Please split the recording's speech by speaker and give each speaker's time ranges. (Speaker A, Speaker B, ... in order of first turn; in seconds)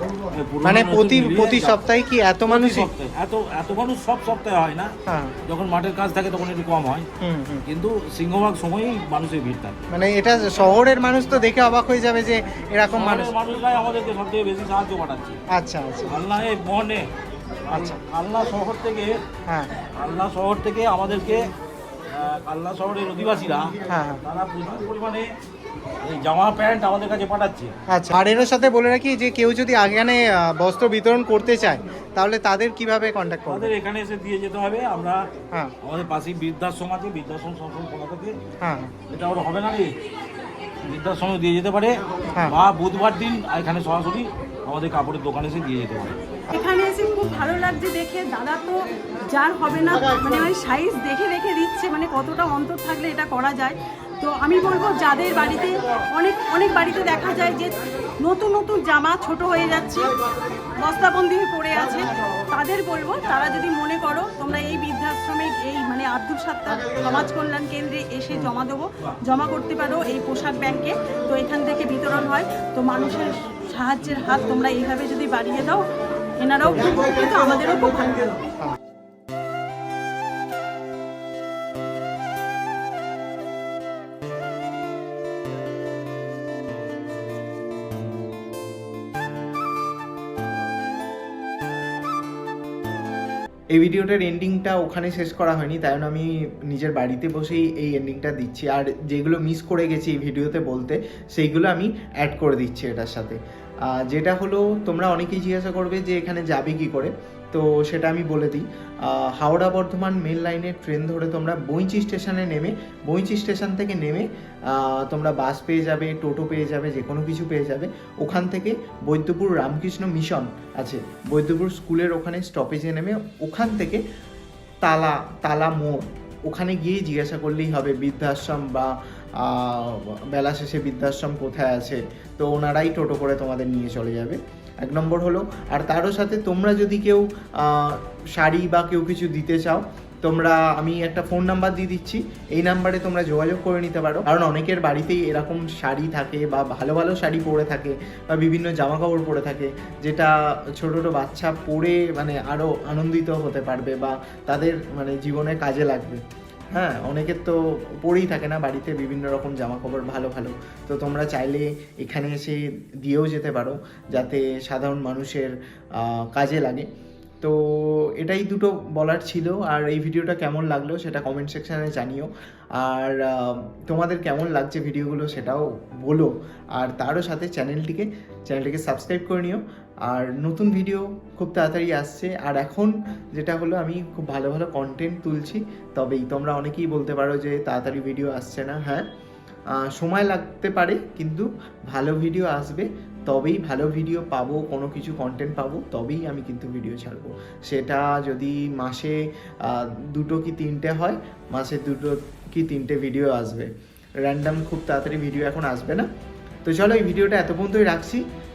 Speaker A: 0.3-1.8, 2.5-4.9, 5.5-7.1, 7.7-9.9, 13.0-15.4, 16.1-17.1, 17.7-19.1, 20.0-21.4, 22.1-25.3, 26.1-27.8, 33.5-35.2, 35.8-38.4, 39.1-39.9, 40.9-42.0, 42.5-46.2
Speaker B: 0.6-2.9, 5.1-5.3, 7.2-7.6, 9.9-13.3, 15.5-16.2, 23.9-24.2, 27.9-33.7, 38.6-38.9
Speaker C: 46.5-60.2, 60.8-75.8, 76.4-78.3
Speaker D: 93.7-103.4, 103.9-124.0, 124.8-156.2, 156.7-166.9, 167.4-189.1, 189.8-203.7, 204.2-206.1, 206.7-208.2